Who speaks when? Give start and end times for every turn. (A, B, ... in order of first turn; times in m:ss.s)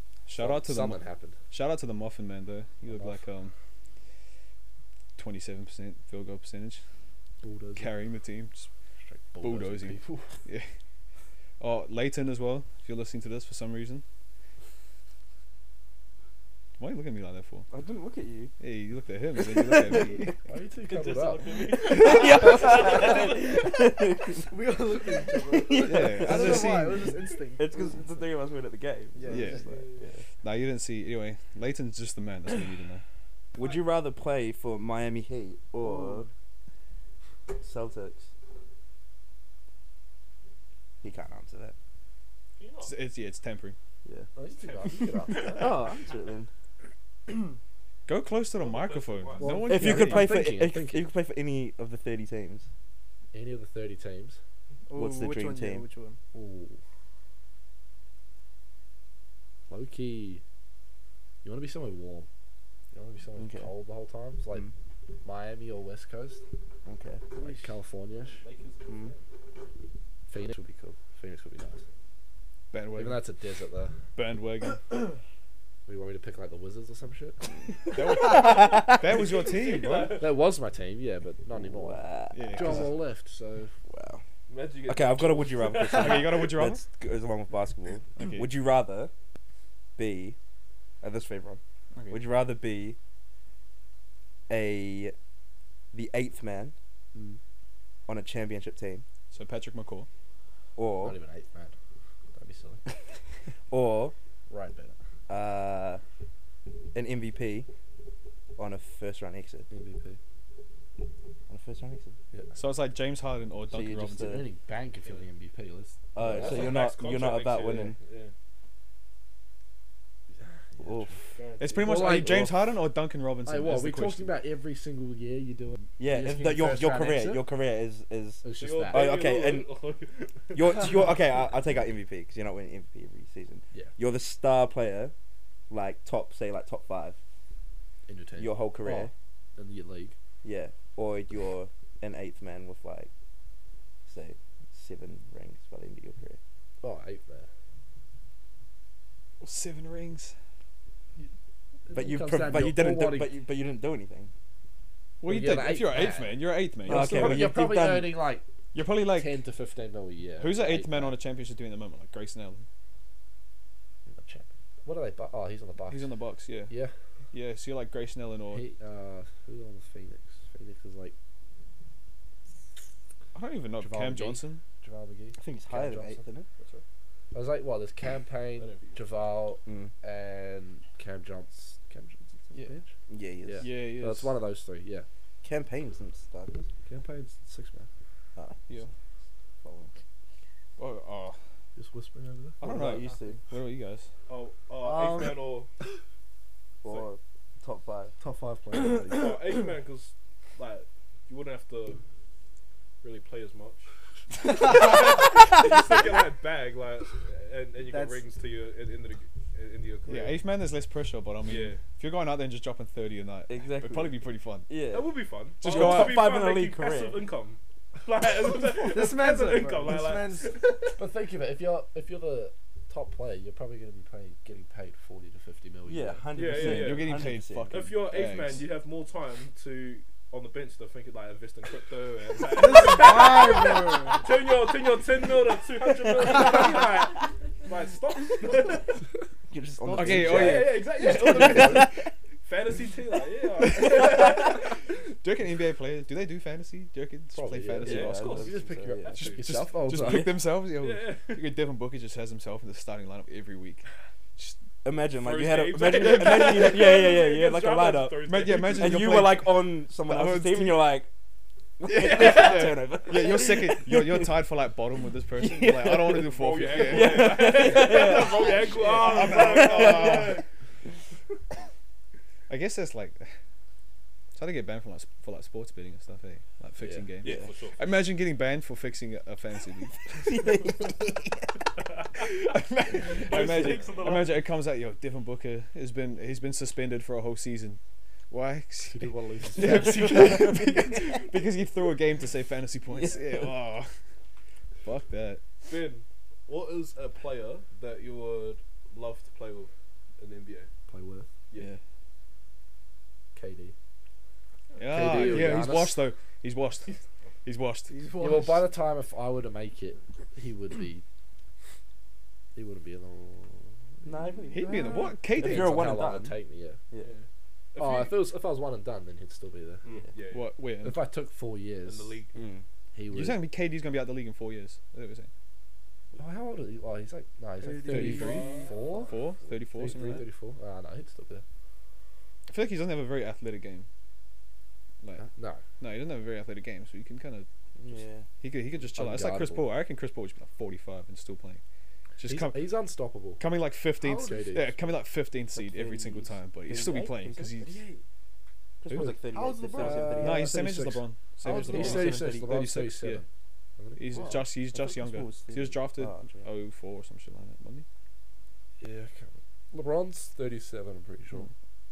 0:00.2-0:03.5 A
0:00.4-0:01.4 B
0:02.9-0:03.2 B
0:05.2-0:06.8 A
0:07.4-0:07.9 B
0:07.8-0:08.7 A
0:09.0-0:10.3 B
0:09.4-0:10.7 A
0:11.6-0:14.0 A
0:16.8-0:17.7 A
0:17.7-0:18.5 C
0:18.6-0:20.3 A
0:19.4-0:20.4 C
0:20.4-0:21.6 B
0:20.9-0:23.6 D
0:21.8-0:24.4 C
0:24.4-0:28.0 E
0:25.4-0:26.8 C
0:25.8-0:27.2 A
0:27.4-0:30.2 C
0:29.1-0:29.9 E
0:29.3-0:29.7 A
0:29.3-0:30.1 D
0:30.4-0:33.0 A
0:33.5-0:36.3 C
0:33.6-0:33.8 D
0:37.5-0:38.3 C
0:41.0-0:41.7 C
0:42.6-0:42.9 D
0:42.8-0:43.8 A
0:44.4-0:45.6 B
0:44.6-0:45.6 D
0:45.4-0:46.5 C
0:48.1-0:50.3 A
0:48.6-0:49.7 D
0:49.4-0:51.1 B
0:49.4-0:49.9 E
0:49.6-0:52.7 C
0:53.3-0:54.4 B
0:54.9-0:56.2 E
0:54.9-0:55.9 C
0:56.3-0:56.8 B
0:59.7-1:00.4 B
1:01.4-1:02.3 B
1:02.9-1:04.7 B
1:03.4-1:03.7 C
1:05.2-1:06.4 B
1:06.8-1:07.2 C
1:07.3-1:08.4 B
1:08.2-1:09.2 D
1:08.9-1:09.1 C
1:10.3-1:11.8 B
1:12.7-1:13.2 A
1:13.0-1:13.9 B
1:14.2-1:15.0 A
1:15.9-1:17.4 B
1:17.9-1:20.2 A
1:18.0-1:19.3 C
1:19.2-1:20.3 D
1:20.2-1:23.7 B
1:21.5-1:22.9 C
1:22.3-1:23.0 A
1:23.9-1:24.2 C
1:24.5-1:26.1 D
1:24.8-1:29.1 C
1:25.9-1:26.8 A
1:28.2-1:28.5 A
1:30.0-1:30.4 C
1:31.0-1:33.0 C
1:31.9-1:32.3 A
1:34.5-1:35.1 C
1:35.9-1:36.7 C
1:37.1-1:37.4 B
1:38.1-1:39.0 C
1:39.3-1:40.1 A
1:40.8-1:41.2 C
1:41.0-1:41.7 B
1:42.3-1:42.8 B
1:43.7-1:44.1 C
1:44.5-1:45.0 B
1:45.3-1:46.0 C
1:46.9-1:47.7 C
1:48.6-1:49.7 C
1:49.7-1:50.2 B
1:51.5-1:52.2 C
1:52.5-1:54.4 A
1:53.7-1:54.4 C
1:54.2-1:56.8 B
1:56.1-1:58.0 C
1:56.2-1:58.3 D
2:00.4-2:02.7 B
2:00.8-2:01.3 C
2:01.3-2:02.1 D
2:01.6-2:04.4 A
2:03.4-2:07.5 B
2:06.0-2:09.8 C
2:08.4-2:09.1 B
2:08.6-2:11.1 D
2:10.5-2:15.1 C
2:15.7-2:17.2 C
2:18.1-2:20.2 B
2:18.4-2:19.1 C
2:20.4-2:23.1 C
2:24.0-2:26.4 C
2:26.8-2:27.5 B
2:29.4-2:30.3 A
2:31.9-2:33.3 B
2:31.9-2:34.3 C
2:35.2-2:37.5 A
2:35.2-2:38.4 B
2:36.8-2:38.3 C
2:38.7-2:39.4 A
2:39.1-2:41.2 B
2:40.4-2:42.6 A
2:44.0-2:46.1 B
2:45.9-2:46.7 A
2:47.3-2:48.6 A
2:48.5-2:51.1 B
2:53.3-2:54.6 A
2:53.8-2:56.2 B
2:55.4-2:56.5 C
2:56.6-2:56.8 D
2:57.3-3:02.9 B
2:58.6-2:59.2 D
2:59.6-2:59.9 C
3:02.7-3:03.7 C
3:03.4-3:05.1 B
3:03.6-3:04.4 A
3:05.4-3:06.7 C
3:06.8-3:07.9 B
3:09.6-3:09.9 C
3:10.8-3:11.4 A
3:11.8-3:12.6 B
3:12.6-3:13.4 C
3:12.6-3:14.1 A
3:12.8-3:13.2 E
3:14.3-3:15.7 D
3:14.8-3:15.4 E
3:16.8-3:18.2 C
3:18.2-3:19.3 B
3:19.1-3:22.0 D
3:23.0-3:23.9 D
3:24.4-3:30.4 D
3:27.9-3:28.2 E
3:30.0-3:34.7 A
3:31.4-3:31.8 D
3:33.5-3:34.2 C
3:34.7-3:35.0 C
3:34.9-3:40.9 D
3:35.6-3:36.3 A
3:35.6-3:37.3 C
3:38.8-3:40.6 E
3:41.0-3:46.3 B
3:45.8-3:47.8 C
3:46.3-3:59.0 D
3:46.5-3:48.7 A
3:52.5-3:54.2 E
3:59.5-4:02.1 C
3:59.8-4:00.5 E
3:59.9-4:00.8 A
4:00.0-4:01.9 D
4:01.4-4:01.8 B
4:02.4-4:04.8 D
4:03.6-4:04.5 A
4:05.2-4:08.4 A
4:07.3-4:10.4 B
4:07.8-4:09.4 C
4:07.8-4:09.4 D
4:09.1-4:13.8 A
4:10.0-4:10.3 C
4:10.8-4:11.5 D
4:14.8-4:21.1 C
4:15.2-4:19.3 D
4:16.0-4:16.6 A
4:18.2-4:20.8 A
4:21.8-4:24.3 C
4:21.8-4:28.1 A
4:22.0-4:22.6 D
4:25.4-4:30.4 C
4:26.3-4:30.4 D
4:28.8-4:30.4 A
4:32.5-4:33.4 A
4:34.3-4:40.7 A
4:36.8-4:37.1 B
4:37.2-4:37.8 D
4:37.2-4:37.5 C
4:40.2-4:40.8 C
4:42.0-4:42.3 D
4:42.2-4:53.9 A
4:43.0-4:44.4 D
4:48.9-4:50.4 B
4:49.6-4:51.1 C
4:52.9-4:53.5 C
4:54.8-4:55.4 A
4:55.6-5:00.7 D
5:00.9-5:01.3 B
5:03.3-5:03.7 B
5:04.8-5:05.2 D
5:04.8-5:06.9 A
5:04.9-5:06.0 B
5:07.4-5:08.0 A
5:07.9-5:08.7 E
5:08.2-5:11.0 B
5:12.5-5:14.1 B
5:14.0-5:16.4 C
5:14.5-5:15.9 A
5:14.5-5:15.2 E
5:15.4-5:16.8 B
5:17.0-5:18.2 D
5:17.8-5:19.8 B
5:19.8-5:20.4 D
5:20.3-5:21.1 A
5:20.8-5:22.2 B
5:21.8-5:22.4 D
5:22.3-5:22.6 C
5:22.9-5:23.5 B
5:23.1-5:25.3 A
5:26.1-5:29.2 B
5:27.6-5:29.1 E
5:27.9-5:28.5 A
5:28.0-5:28.8 D
5:29.0-5:30.2 A
5:29.7-5:31.4 B
5:32.5-5:33.9 A
5:35.2-5:35.6 B
5:35.8-5:37.5 A
5:37.8-5:38.3 C
5:38.4-5:41.6 A
5:38.9-5:39.7 B
5:42.2-5:42.6 A
5:42.2-5:43.4 B
5:43.4-5:47.8 A
5:44.0-5:44.6 E
5:44.1-5:44.7 B
5:45.6-5:48.0 C
5:48.8-5:50.5 C
5:48.9-5:49.2 B
5:49.3-5:50.2 E
5:49.7-5:53.2 B
5:50.1-5:53.2 A
5:51.4-5:52.7 C
5:53.8-5:54.3 B
5:54.0-5:57.8 A
5:54.1-5:54.4 E
5:54.7-5:56.5 C
5:58.8-6:01.5 B